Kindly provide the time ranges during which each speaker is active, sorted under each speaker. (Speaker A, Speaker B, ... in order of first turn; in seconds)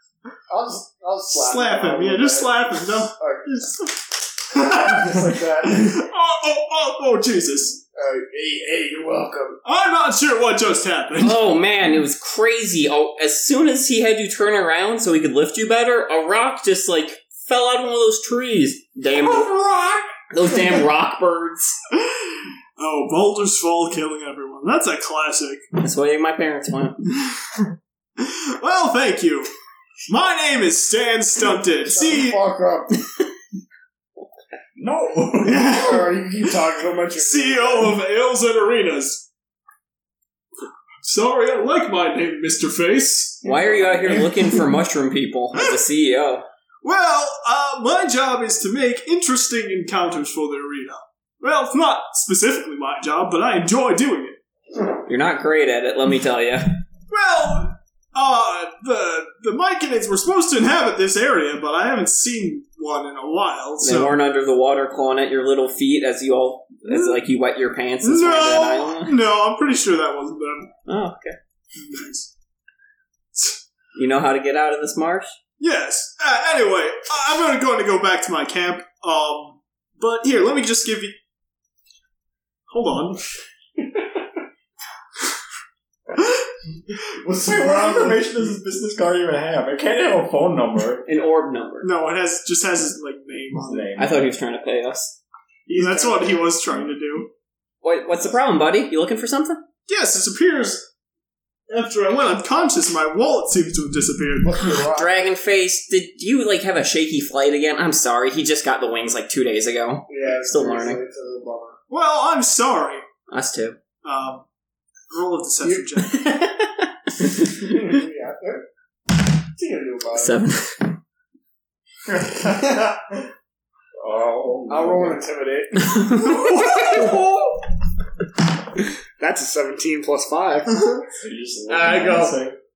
Speaker A: 0.5-3.7, 4.5-6.0, 7.9-9.6, 31.8-33.0, 35.4-38.0, 87.3-88.2, 95.7-96.5, 104.4-105.3, 110.1-111.8, 117.5-118.7, 119.5-120.4, 122.1-123.1, 124.7-127.2, 129.2-130.9, 131.7-132.4
Speaker B: 1.3-4.0, 4.5-7.8, 9.6-11.4, 22.8-25.6, 28.2-29.5, 30.1-32.4, 35.4-36.1, 37.1-39.3, 41.0-44.6, 46.8-54.4, 57.1-64.2, 66.8-67.2, 68.0-70.7, 71.8-72.3, 75.6-81.2, 82.7-83.2, 91.8-93.9, 95.7-97.3, 99.9-100.9, 101.7-104.6, 111.9-113.0, 114.0-114.4, 115.1-116.2, 126.2-127.0
Speaker C: 11.2-19.5, 20.3-21.8, 25.8-27.0, 43.4-46.5, 55.0-56.8, 63.8-69.2, 70.9-71.4, 73.9-75.3, 91.0-91.9, 94.0-95.2, 97.8-99.6, 104.6-111.0, 113.3-113.8, 116.0-117.7, 120.1-121.0
Speaker D: 34.8-35.8, 87.2-91.1, 93.5-94.3, 124.0-125.2, 131.0-132.6